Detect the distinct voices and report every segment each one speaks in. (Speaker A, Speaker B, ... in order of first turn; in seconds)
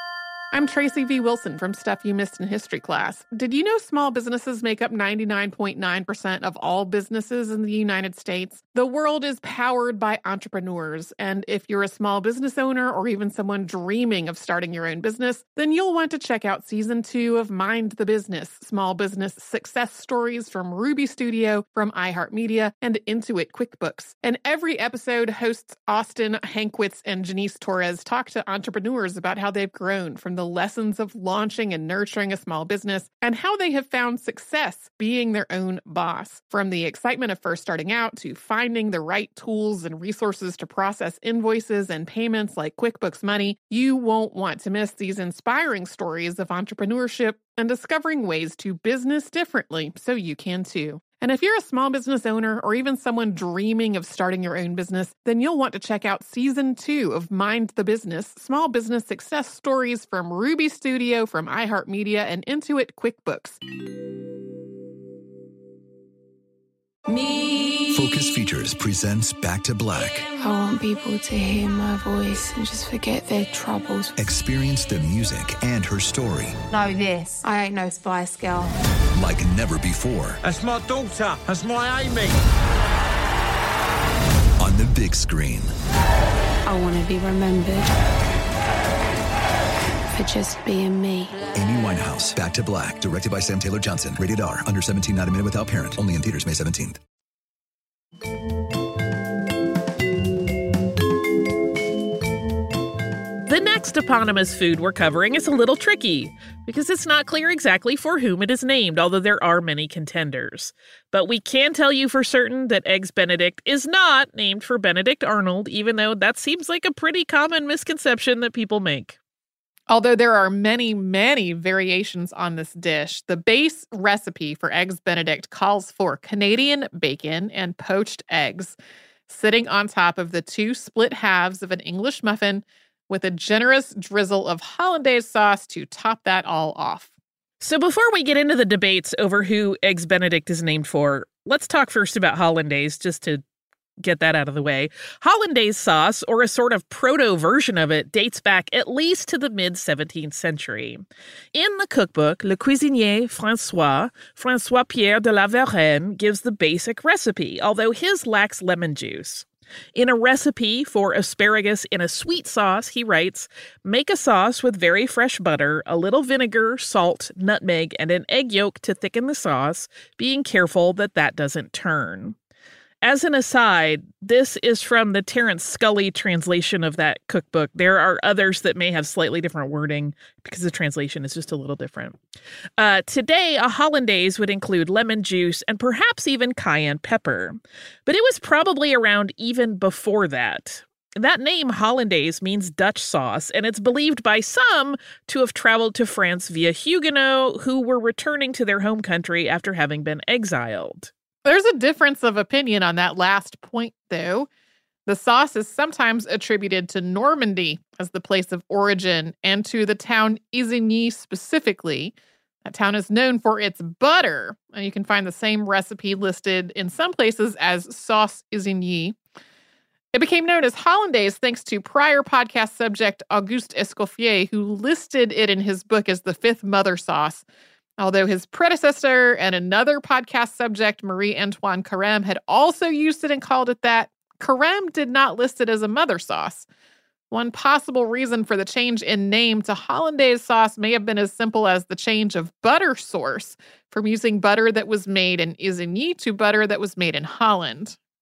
Speaker A: 0.5-63.6, 119.9-128.7, 129.3-137.1, 201.4-204.5, 205.1-212.1, 212.6-219.2, 220.1-227.4, 228.0-236.7, 237.3-248.0
Speaker B: 67.9-70.3, 74.2-76.6, 79.1-80.4, 84.6-85.7, 91.5-97.0
Speaker C: 70.4-74.1, 86.7-87.9, 90.1-91.4
Speaker D: 76.7-78.7
Speaker E: 80.4-82.4
Speaker F: 103.4-119.2, 137.6-143.4, 144.0-151.0, 151.5-172.3, 173.0-182.2, 182.8-201.1